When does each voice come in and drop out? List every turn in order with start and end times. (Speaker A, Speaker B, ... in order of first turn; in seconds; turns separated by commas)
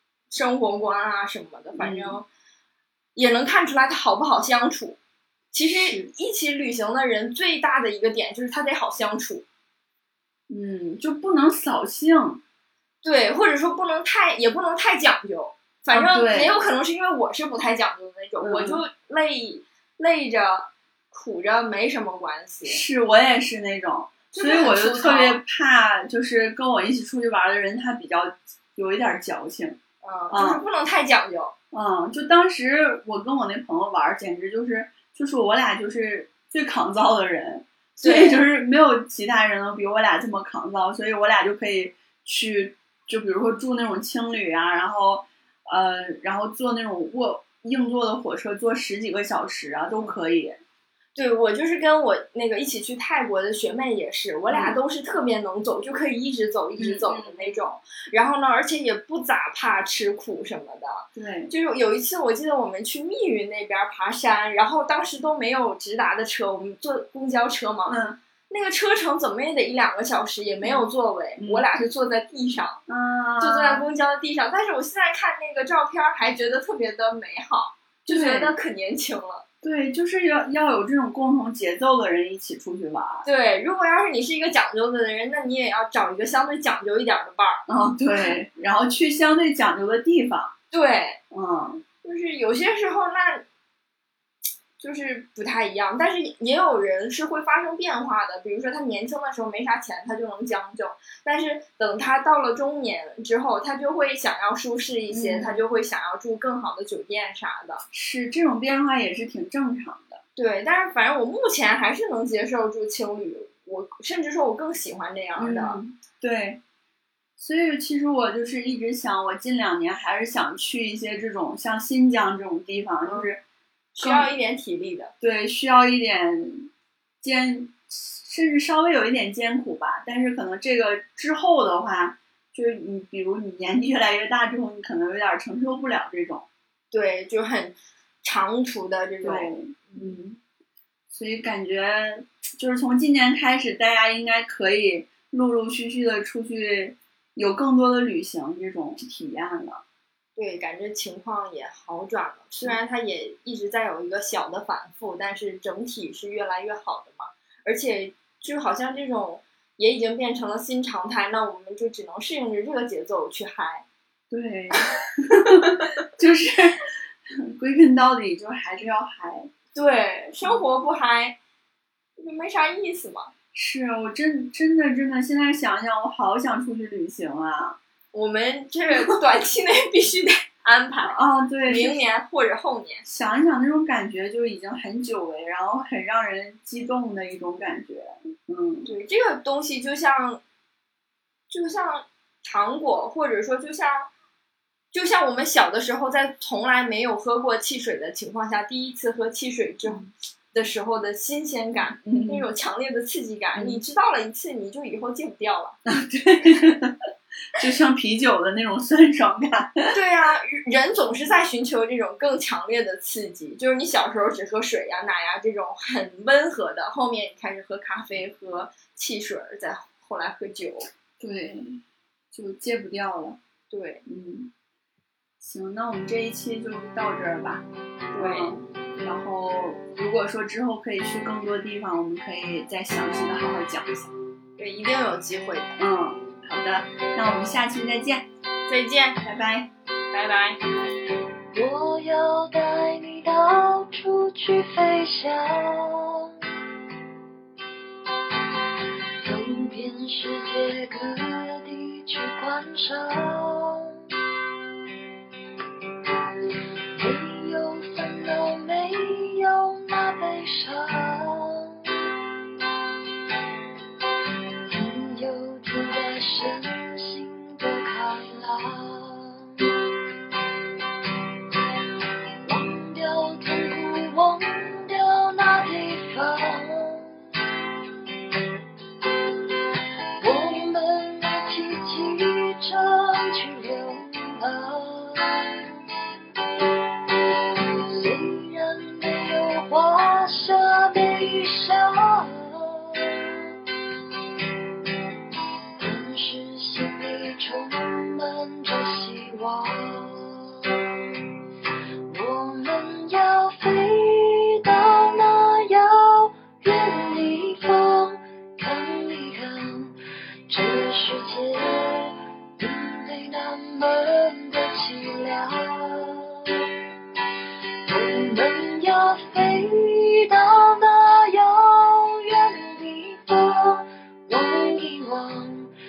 Speaker A: 0.3-2.2, Speaker B: 1.8-2.2, Speaker A: 3.1-5.0, Speaker A: 5.5-9.4, Speaker B: 5.7-6.1, Speaker B: 10.5-12.4, Speaker A: 13.0-22.8, Speaker B: 15.9-16.5, Speaker B: 18.4-18.8, Speaker B: 22.6-29.8, Speaker A: 24.3-25.4, Speaker A: 30.0-31.5, Speaker B: 30.3-30.6, Speaker B: 31.7-50.6, Speaker A: 38.0-38.4, Speaker A: 51.1-68.0, Speaker B: 54.5-54.8, Speaker B: 56.8-57.6, Speaker B: 61.1-61.5, Speaker B: 67.8-68.2, Speaker A: 68.5-72.8, Speaker B: 70.6-71.6, Speaker B: 72.9-73.8, Speaker A: 73.4-79.4, Speaker B: 78.1-78.5, Speaker B: 79.6-83.2, Speaker A: 83.2-87.6, Speaker B: 87.7-90.5, Speaker A: 90.7-91.2, Speaker B: 91.3-91.8, Speaker A: 92.0-93.4, Speaker A: 94.8-107.8, Speaker B: 105.1-105.6, Speaker B: 107.9-110.2, Speaker A: 110.3-115.8, Speaker B: 115.3-116.6, Speaker B: 117.4-123.4, Speaker A: 123.0-123.3, Speaker A: 123.9-125.1, Speaker B: 124.0-124.3, Speaker B: 125.2-126.7, Speaker B: 127.2-136.4, Speaker A: 136.9-140.1, Speaker B: 139.2-140.4, Speaker B: 141.1-149.8, Speaker A: 150.3-163.8, Speaker B: 164.3-166.8, Speaker A: 165.6-165.8, Speaker B: 167.4-169.5, Speaker A: 169.7-171.3, Speaker A: 172.2-173.3, Speaker B: 173.5-177.8, Speaker A: 178.1-183.0, Speaker B: 181.0-182.0, Speaker B: 183.0-188.9, Speaker A: 188.8-190.4, Speaker A: 191.5-194.1, Speaker A: 194.9-205.8, Speaker B: 202.0-202.4, Speaker B: 203.5-203.8, Speaker B: 205.8-207.0, Speaker B: 207.5-209.9, Speaker A: 209.9-220.9, Speaker B: 221.2-221.8, Speaker B: 222.3-223.4, Speaker A: 223.7-224.0, Speaker B: 224.1-224.5, Speaker B: 225.4-234.1, Speaker A: 228.1-228.5, Speaker A: 234.6-235.8, Speaker B: 235.8-238.3, Speaker A: 238.7-239.2, Speaker B: 239.2-239.7, Speaker A: 240.1-240.6, Speaker C: 241.5-246.3, Speaker C: 249.2-254.0, Speaker C: 256.9-261.9, Speaker C: 264.7-269.7, Speaker C: 272.4-277.1, Speaker C: 280.2-285.7, Speaker C: 287.7-293.5, Speaker C: 295.8-300.7, Speaker C: 302.1-309.9, Speaker C: 310.5-316.6, Speaker C: 317.9-325.7